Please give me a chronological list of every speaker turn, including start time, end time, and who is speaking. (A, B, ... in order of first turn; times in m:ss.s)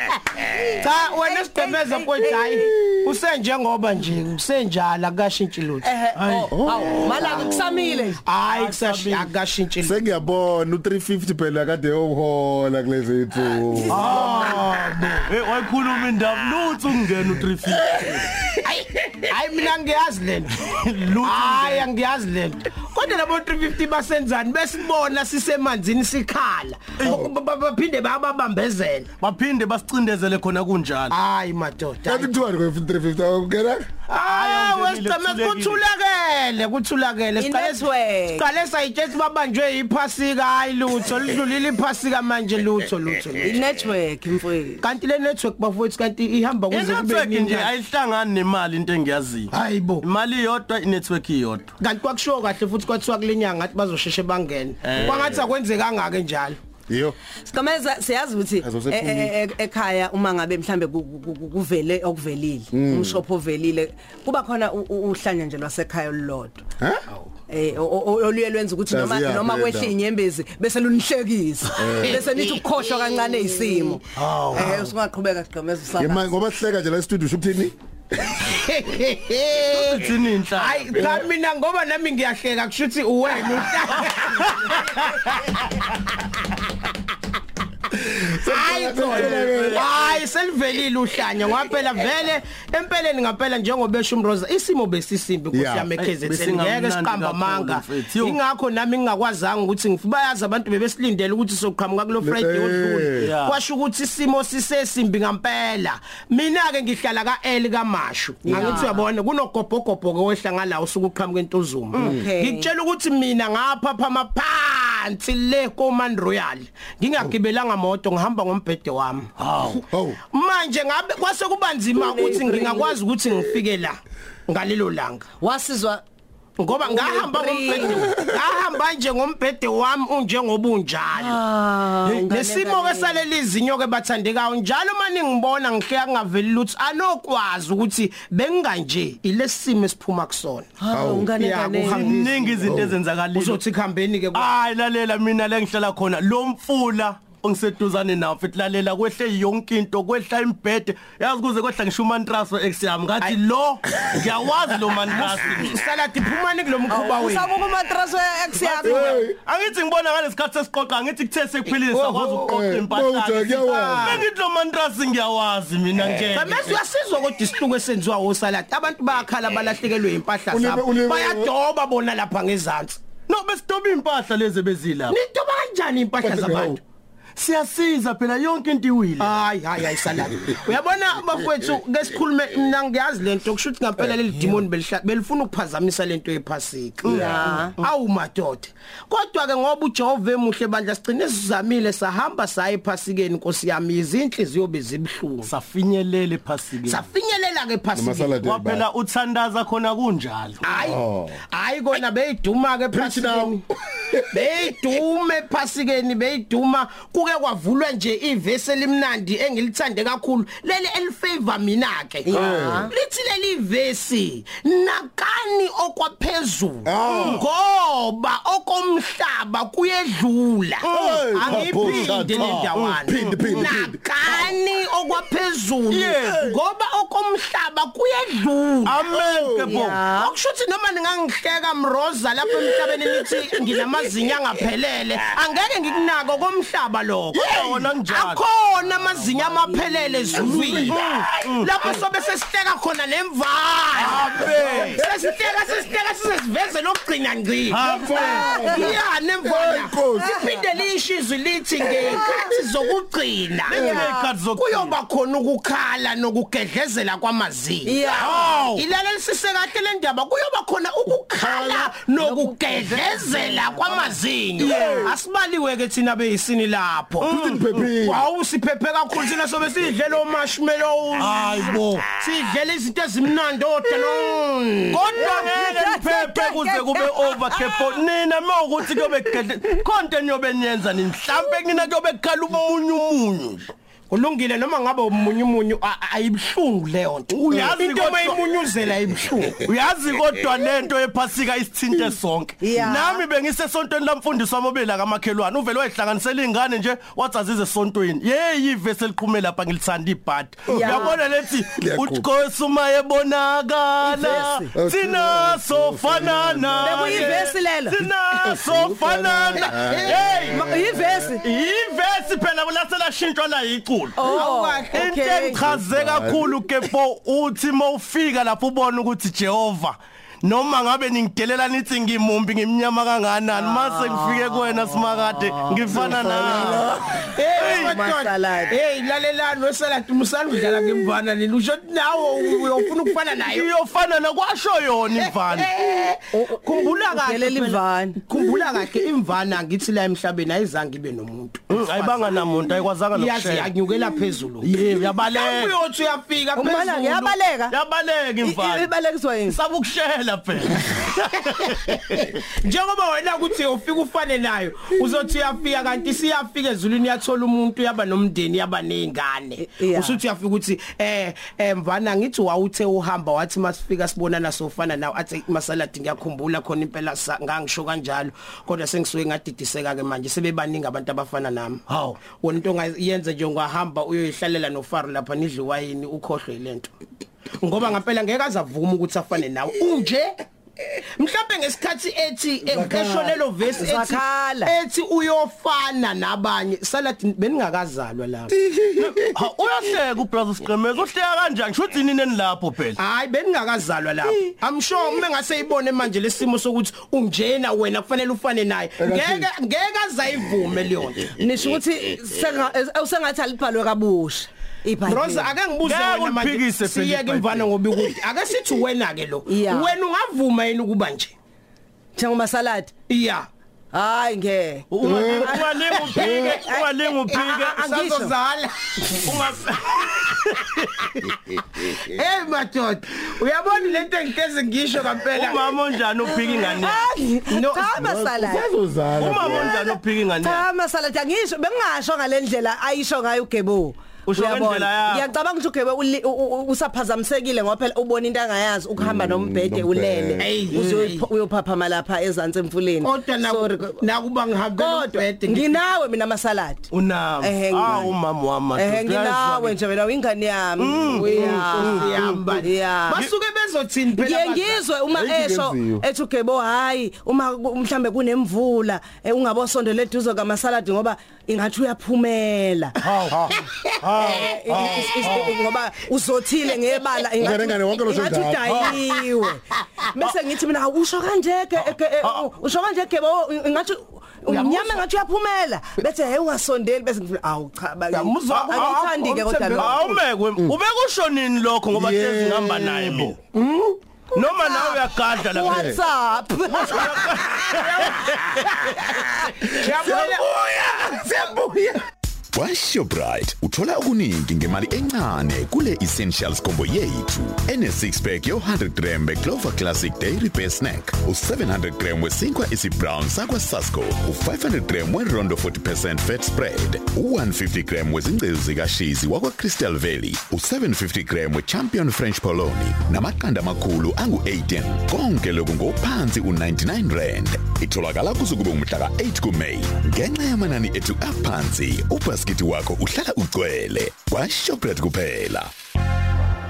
0:00.5-0:02.7 A
0:00.8-0:05.9 B
0:05.8-0:08.2 A
0:06.1-0:07.0 C
0:06.5-0:07.7 D
0:07.1-0:07.5 B
0:08.2-0:10.0 B
0:08.4-0:09.3 C
0:09.8-0:14.6 D
0:13.9-0:14.7 C
0:13.9-0:15.3 B
0:15.2-0:18.3 C
0:18.6-0:20.5 B
0:20.6-0:21.9 C
0:21.2-0:29.1 B
0:27.0-0:27.2 C
0:27.0-0:27.3 D
0:29.2-0:31.2 C
0:31.1-0:32.3 B
0:32.0-0:33.9 D
0:34.1-0:43.6 B
0:34.1-0:35.8 C
0:37.4-0:38.4 A
0:43.4-0:44.8 A
0:44.8-0:47.7 B
0:46.7-0:51.7 C
0:49.5-0:50.0 B
0:51.8-0:56.6 B
0:54.8-0:55.4 C
0:56.9-0:57.2 D
0:57.4-1:06.6 A
0:58.6-0:59.3 D
1:02.7-1:03.2 D
1:07.5-1:16.3 A
1:08.9-1:10.0 D
1:11.8-1:12.3 D
1:14.1-1:14.9 C
1:16.0-1:17.7 D
1:18.4-1:25.0 B
1:19.6-1:21.2 C
1:21.0-1:21.3 D
1:24.1-1:25.3 C
1:27.9-1:29.9 D
1:28.4-1:59.3 B
1:29.0-1:30.1 C
1:35.5-1:35.9 D
1:36.0-1:38.4 C
1:42.2-1:43.3 D
1:43.2-1:43.6 C
1:48.4-1:49.1 A
1:48.5-1:48.8 C
1:52.0-1:52.7 A
1:59.4-1:59.8 C
1:59.9-2:00.2 D
2:00.3-2:05.3 B
2:02.0-2:02.9 A
2:05.4-2:06.0 A
2:06.6-2:11.4 B
2:06.8-2:08.1 A
2:11.1-2:13.2 A
2:12.3-2:20.7 B
2:20.8-2:22.7 A
2:20.9-2:21.3 D
2:21.3-2:22.2 B
2:21.8-2:23.6 C
2:22.6-2:23.0 D
2:23.3-2:24.5 B
2:24.3-2:35.8 C
2:35.5-2:37.5 B
2:36.9-2:39.3 A
2:38.6-2:46.7 C
2:38.8-2:39.4 D
2:41.9-2:42.5 B
2:42.4-2:44.2 D
2:43.6-2:44.2 B
2:46.3-2:53.0 B
2:50.5-2:51.5 D
2:53.3-2:55.2 C
2:55.1-2:56.8 B
2:56.2-2:56.8 D
2:57.4-2:59.4 C
2:59.2-3:15.5 B
3:07.0-3:07.5 C
3:07.1-3:07.7 A
3:15.4-3:17.0 C
3:16.8-3:18.4 B
3:17.9-3:18.9 D
3:18.4-3:20.7 C
3:20.6-3:23.6 B
3:20.8-3:21.4 D
3:22.9-3:24.4 D
3:24.3-3:49.0 B
3:32.2-3:32.9 A
3:32.3-3:32.9 D
3:36.8-3:37.4 D
3:37.1-3:37.4 C
3:40.8-3:43.7 C
3:40.9-3:44.0 D
3:45.9-3:46.4 C
3:48.8-3:50.1 C
3:49.1-3:49.8 D
3:49.6-3:50.3 A
3:50.0-4:01.0 B
3:52.6-3:54.2 D
3:57.3-3:57.9 D
3:57.4-3:58.4 C
4:00.3-4:01.3 D
4:00.4-4:01.8 C
4:01.6-4:27.4 B
4:04.0-4:05.0 C
4:04.1-4:05.0 D
4:07.7-4:08.7 C
4:07.8-4:10.4 D
4:08.1-4:08.9 A
4:10.1-4:10.7 A
4:11.9-4:12.3 D
4:13.6-4:15.0 C
4:13.7-4:14.3 A
4:17.8-4:18.4 A
4:18.2-4:18.8 C
4:21.4-4:21.9 D
4:22.2-4:24.2 A
4:24.6-4:25.1 D
4:24.6-4:25.0 C
4:27.2-4:27.9 C
4:27.2-4:28.2 D
4:28.0-4:31.4 B
4:31.1-4:32.1 C
4:32.1-4:35.1 B
4:34.9-4:43.7 C
4:35.2-4:38.0 A
4:44.1-4:49.6 B
4:47.3-4:48.4 C
4:49.6-5:10.6 C
4:52.6-4:53.2 A
5:00.7-5:01.2 A
5:00.7-5:01.1 D
5:01.7-5:02.3 D
5:04.0-5:04.7 A
5:04.7-5:07.4 D
5:06.8-5:08.0 A
5:08.4-5:11.3 D
5:09.5-5:10.4 B
5:10.5-5:11.4 A
5:11.4-5:26.8 C
5:14.2-5:15.6 A
5:14.2-5:15.0 B
5:15.6-5:16.6 D
5:23.6-5:26.8 A
5:25.9-5:27.2 D
5:27.2-5:33.7 B
5:27.6-5:28.0 C
5:27.6-5:28.8 A
5:33.4-5:35.7 C
5:35.2-5:42.4 B
5:36.3-5:38.2 A
5:41.7-5:43.7 C
5:43.1-5:47.4 B
5:44.6-5:45.7 C
5:46.6-5:47.8 A
5:47.7-5:48.9 C
5:48.4-5:49.6 A
5:49.5-5:52.3 C
5:52.4-6:16.9 B
5:59.6-6:00.2 A
6:11.9-6:12.2 C
6:17.6-6:28.5 B
6:22.6-6:23.4 D
6:23.8-6:24.7 A
6:28.6-6:29.2 D
6:29.0-6:33.0 C
6:33.0-6:41.3 B
6:39.0-6:39.5 D
6:41.4-6:45.5 A
6:45.0-6:51.3 B
6:45.8-6:47.7 C
6:49.4-6:49.9 A
6:52.1-6:52.9 A
6:53.1-6:53.5 B
6:53.9-6:55.6 A
6:54.9-6:57.8 C
6:55.0-6:56.5 D
6:55.4-6:56.4 B
6:56.1-6:58.3 A
6:57.3-6:59.3 B
6:59.2-7:01.3 C
7:01.8-7:05.8 B
7:05.3-7:07.1 C
7:06.4-7:08.7 A
7:07.5-7:07.9 B
7:08.0-7:09.8 D
7:09.1-7:10.6 C
7:10.4-7:24.0 A
7:14.2-7:15.3 C
7:19.0-7:20.8 D
7:20.4-7:21.3 B
7:23.0-7:25.8 B
7:24.7-7:26.9 A
7:26.9-7:29.8 C
7:27.4-7:28.2 A
7:28.7-7:33.2 A
7:30.8-7:33.3 C
7:31.0-7:34.8 B
7:34.2-7:42.9 A
7:35.1-7:36.0 D
7:43.0-7:45.5 C
7:43.3-7:43.6 D
7:44.2-8:00.1 A
7:47.4-7:49.0 D
7:51.8-7:52.4 C
7:54.5-7:55.0 B
7:58.1-8:00.2 B
7:58.5-7:59.0 C
7:59.8-8:03.4 C
8:01.9-8:03.3 D
8:03.5-8:04.0 B
8:04.3-8:06.0 C
8:04.6-8:07.0 A
8:05.6-8:06.0 D
8:06.7-8:08.5 C
8:07.7-8:08.4 B
8:09.6-8:10.5 B
8:09.8-8:12.0 D
8:12.5-8:45.7 E